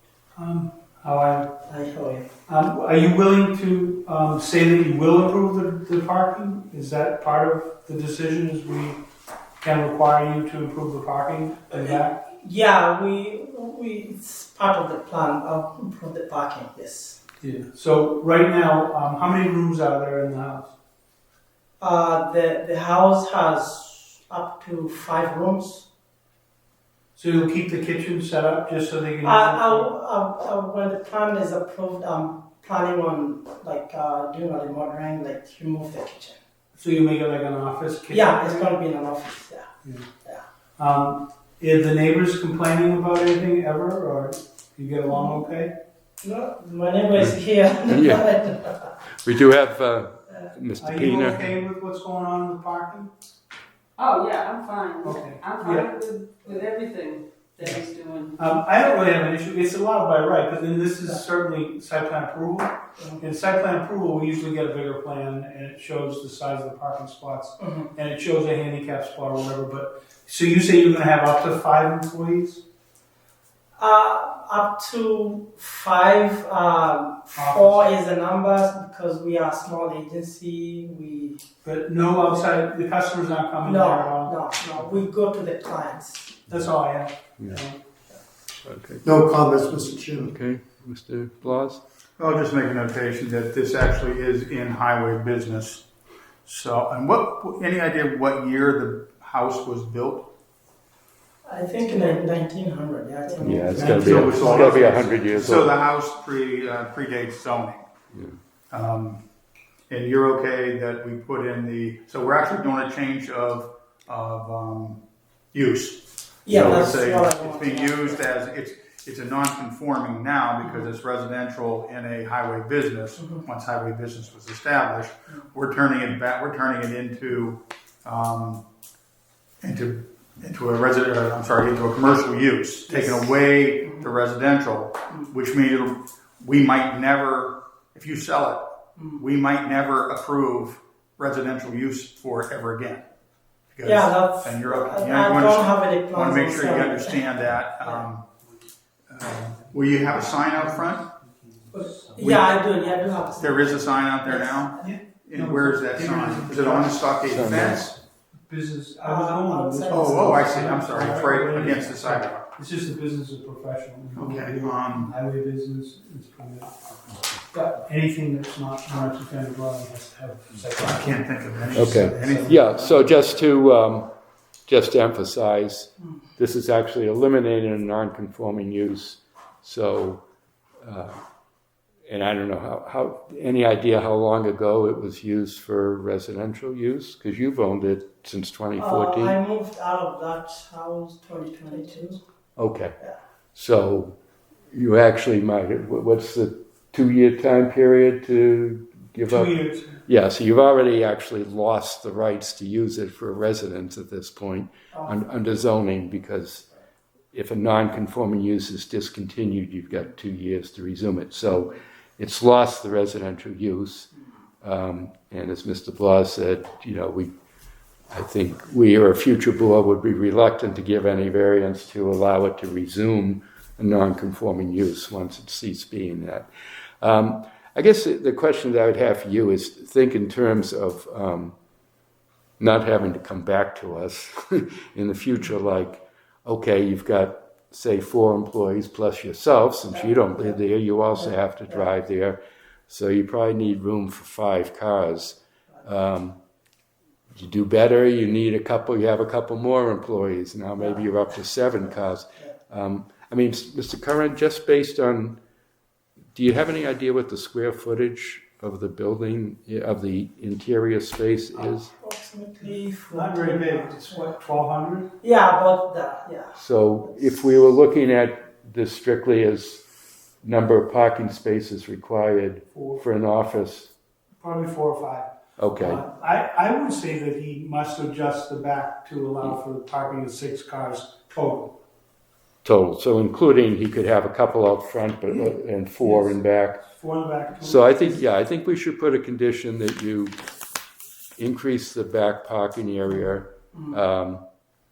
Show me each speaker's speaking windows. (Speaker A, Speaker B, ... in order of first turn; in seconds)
Speaker A: 0.3-1.5, 2.5-9.0, 9.6-12.2, 17.4-20.7, 27.1-29.9, 36.7-38.7, 40.8-45.7, 50.8-53.1, 55.0-55.9, 58.4-72.6, 77.3-77.8, 81.6-84.4, 86.5-87.8, 103.7-105.7, 149.8-152.4, 154.8-157.1, 158.5-166.8, 167.5-172.6, 199.2-200.0, 263.1-265.1, 272.7-273.0, 274.4-281.7, 285.3-288.2
Speaker B: 1.6-2.3, 11.7-17.2, 21.8-25.9, 29.2-36.4, 38.1-39.7, 45.1-45.5, 46.2-48.8, 67.6-67.9, 73.8-81.4, 83.6-86.3, 101.4-104.3, 116.4-118.2, 120.6-120.9, 123.2-123.4, 132.9-133.2, 143.8-147.2, 147.8-148.1, 151.7-154.7, 159.0-160.6, 188.8-192.2, 239.9-240.6, 241.2-241.8, 250.8-251.1, 261.6-264.3, 265.2-266.6
Speaker C: 47.2-48.3, 49.2-51.5, 88.6-91.8, 103.4-105.7, 116.5-116.8, 157.2-157.9, 171.7-174.1, 174.7-180.2, 180.8-181.2, 182.1-189.3, 192.6-193.0, 193.5-194.2, 194.7-206.7, 207.3-217.3, 218.1-226.5, 227.0-231.6, 232.6-246.4, 247.3-255.4, 256.3-261.9, 266.6-269.8, 270.4-273.9, 275.6-276.0, 282.6-286.8, 287.6-290.3, 291.4-294.4
Speaker D: 54.0-58.4
Speaker E: 89.4-89.9, 92.2-95.8, 96.4-100.3, 104.0-107.9, 108.7-109.2, 109.9-115.0, 115.5-128.6, 129.6-143.0, 143.7-148.2, 149.1-151.0, 152.2-152.5, 153.4-157.9, 159.9-162.5, 164.2-165.1, 170.8-173.2